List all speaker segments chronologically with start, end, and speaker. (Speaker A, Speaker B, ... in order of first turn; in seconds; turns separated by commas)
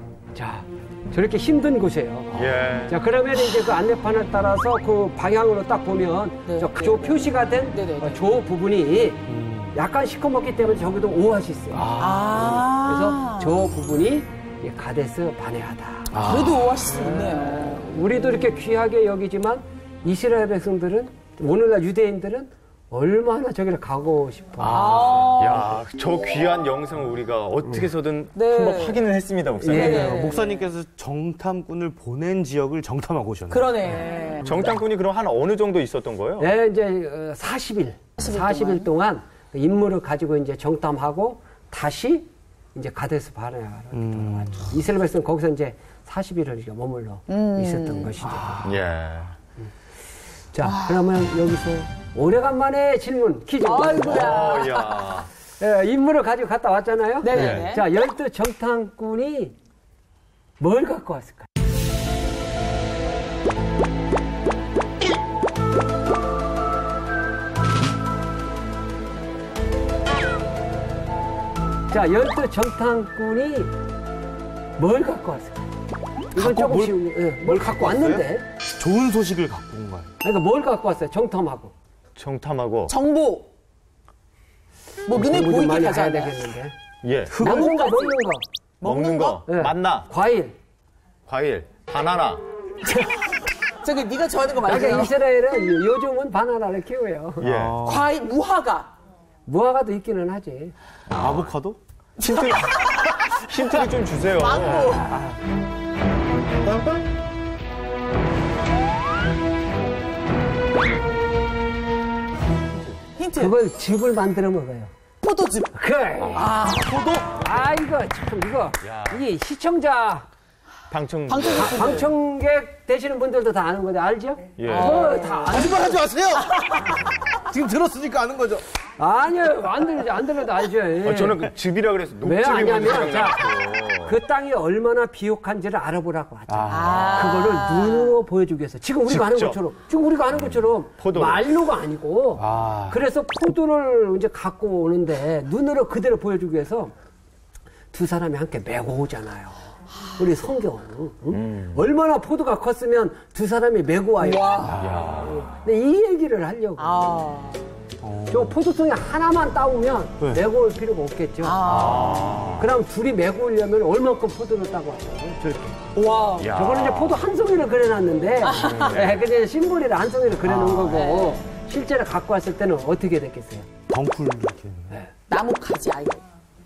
Speaker A: 0.3-16.1, Speaker B: 2.3-2.9, Speaker C: 6.5-8.2, Speaker D: 9.3-9.7, Speaker D: 11.7-12.5, Speaker C: 12.0-13.6, Speaker D: 16.1-16.7, Speaker C: 16.2-17.9, Speaker A: 16.9-25.3, Speaker D: 24.6-25.3, Speaker C: 24.6-25.8, Speaker B: 25.3-30.2, Speaker C: 28.3-29.0, Speaker A: 29.6-30.2, Speaker C: 29.7-30.6, Speaker D: 29.7-33.7, Speaker C: 33.5-34.5, Speaker B: 34.4-36.5, Speaker A: 36.4-48.6, Speaker C: 38.2-38.9, Speaker D: 43.9-44.7, Speaker C: 47.3-48.1, Speaker D: 48.2-48.7, Speaker B: 48.6-49.3, Speaker A: 50.5-54.7, Speaker C: 50.6-51.0, Speaker C: 53.6-55.1, Speaker B: 54.0-55.3, Speaker A: 55.6-59.5, Speaker C: 57.2-57.8, Speaker B: 57.3-57.7, Speaker A: 60.6-61.5, Speaker A: 71.9-73.7, Speaker A: 74.8-75.6, Speaker A: 76.3-78.4, Speaker D: 76.3-80.1, Speaker A: 80.2-81.7, Speaker B: 82.2-82.9, Speaker C: 82.9-83.5, Speaker C: 85.0-86.3, Speaker A: 85.1-86.7, Speaker B: 87.0-87.3, Speaker D: 87.3-87.8, Speaker C: 87.4-88.2, Speaker A: 87.4-88.4, Speaker C: 88.8-89.4, Speaker B: 88.8-90.1, Speaker A: 89.5-90.5, Speaker B: 91.3-92.4, Speaker C: 92.9-93.1, Speaker C: 93.7-95.1, Speaker A: 94.6-97.5, Speaker B: 97.4-97.8, Speaker D: 97.4-98.1, Speaker C: 97.8-98.9, Speaker A: 99.5-100.7, Speaker B: 101.1-101.5, Speaker D: 101.1-101.8, Speaker B: 102.2-105.1, Speaker C: 102.2-103.8, Speaker C: 104.4-105.1, Speaker A: 104.9-105.3, Speaker B: 106.7-107.0, Speaker C: 113.2-113.6, Speaker A: 113.3-114.9, Speaker C: 115.2-116.5, Speaker A: 115.7-120.3, Speaker D: 116.7-117.4, Speaker B: 118.8-119.2, Speaker B: 120.9-122.1, Speaker C: 121.3-122.1, Speaker A: 121.5-126.0, Speaker B: 124.6-125.2, Speaker C: 124.7-127.0, Speaker D: 125.5-128.6, Speaker A: 129.0-131.5, Speaker B: 131.0-134.2, Speaker A: 132.2-133.5, Speaker A: 134.0-146.9, Speaker D: 136.5-137.2, Speaker C: 136.7-138.2, Speaker B: 139.1-139.6, Speaker B: 140.3-141.4, Speaker D: 142.4-143.0, Speaker A: 147.9-149.6, Speaker A: 150.1-157.1, Speaker B: 151.3-151.8, Speaker C: 154.2-154.8, Speaker D: 154.6-155.1, Speaker B: 154.8-155.5, Speaker C: 156.8-157.6, Speaker D: 158.0-158.6, Speaker A: 158.3-161.6, Speaker C: 161.4-162.5, Speaker B: 161.6-162.7, Speaker A: 162.5-165.9, Speaker C: 165.9-166.5, Speaker B: 166.4-167.2, Speaker A: 166.5-173.7, Speaker C: 168.4-168.9, Speaker B: 168.8-169.2, Speaker D: 170.4-170.9, Speaker C: 170.7-171.4, Speaker D: 173.9-175.0, Speaker C: 175.3-176.2